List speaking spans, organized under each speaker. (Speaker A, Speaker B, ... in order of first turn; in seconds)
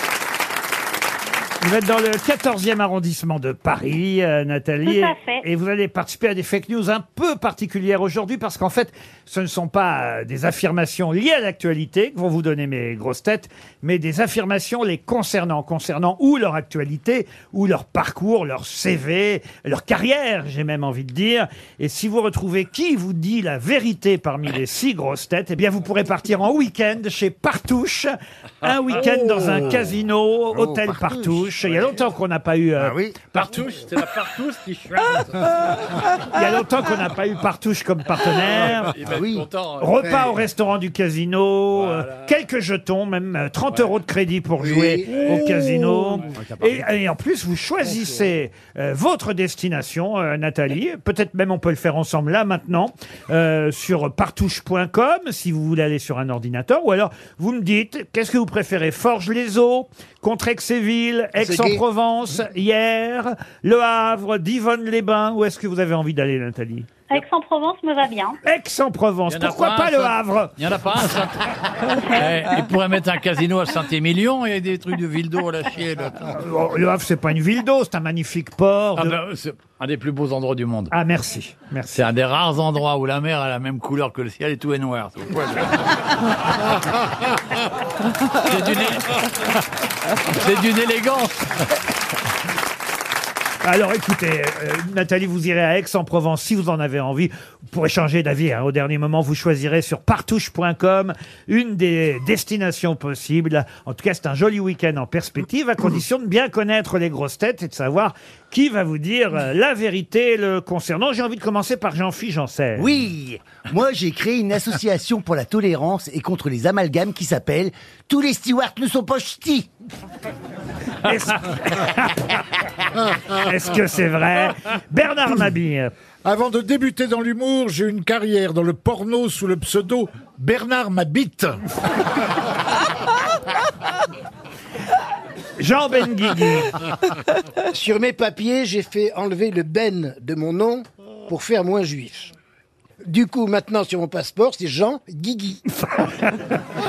Speaker A: 1.6-33.6, 36.3-38.9, 39.8-66.9, 68.4-70.6, 76.3-79.2, 80.9-82.0, 93.6-112.9, 121.0-122.4, 123.3-125.9, 135.6-136.8, 145.8-146.4
Speaker B: 4.8-5.4, 67.1-68.4
Speaker C: 28.9-29.6, 31.6-32.0, 33.5-35.7, 38.5-40.2, 41.7-42.2, 45.1-45.4, 69.3-76.3, 79.0-80.9, 81.9-85.9, 88.3-89.5, 90.2-91.5
Speaker D: 30.5-31.5, 32.8-33.2, 39.1-39.5, 112.8-119.7
Speaker E: 44.6-45.3, 61.4-61.8, 137.6-142.3, 143.0-145.6
Speaker F: 126.2-131.6